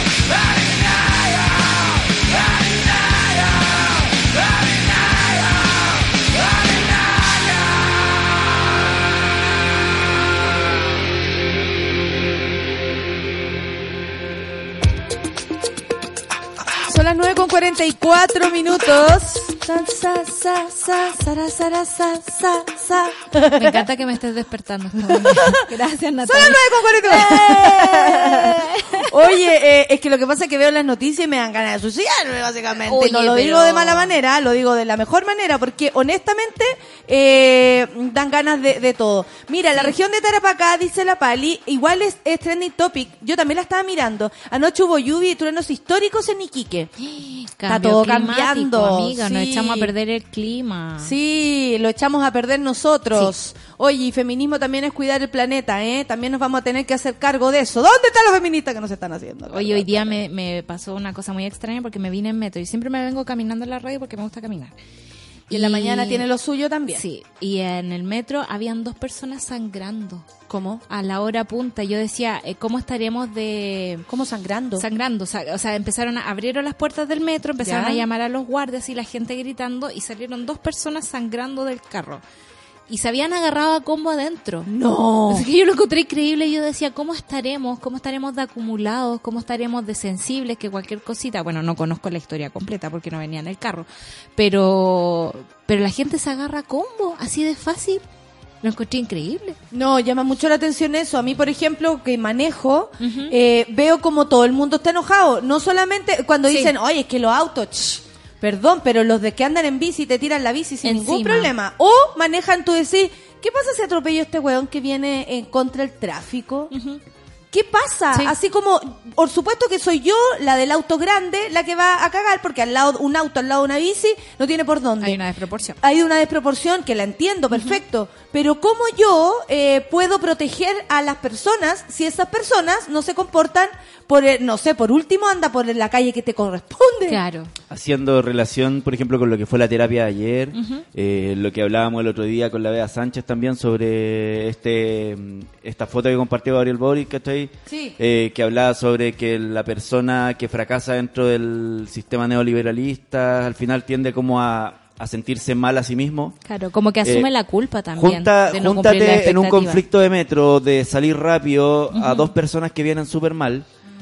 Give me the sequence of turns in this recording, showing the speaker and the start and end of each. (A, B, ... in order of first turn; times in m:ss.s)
0:16.9-0:23.8 A
0:23.5-0:29.1 B
0:25.0-0:25.7 A
0:26.2-0:46.9 A
0:32.9-0:34.1 B
0:47.0-0:51.1 B
0:47.7-0:49.9 A
0:51.0-1:00.2 A
0:59.5-1:04.7 B
1:05.5-1:06.3 B
1:05.5-1:07.0 A
1:06.9-1:10.3 B
1:10.5-1:10.8 A
1:10.9-1:14.1 B
1:14.1-1:14.9 A
1:14.8-1:22.2 B
1:17.6-1:18.0 A
1:22.9-1:24.7 B
1:24.7-1:25.5 A
1:25.3-1:38.0 B
1:38.6-1:39.6 B
1:39.7-1:56.7 A
1:43.0-1:43.4 B
1:46.5-1:46.7 B
1:50.8-1:51.5 B
1:56.7-1:57.0 B
1:57.5-2:05.2 A
2:05.0-2:05.8 B
2:05.8-2:17.2 A
2:17.1-2:17.5 B
2:17.7-2:36.4 C
2:20.6-2:20.8 B
2:27.7-2:28.0 A
2:36.4-2:39.8 B
2:38.0-2:43.7 C
2:41.9-2:42.3 B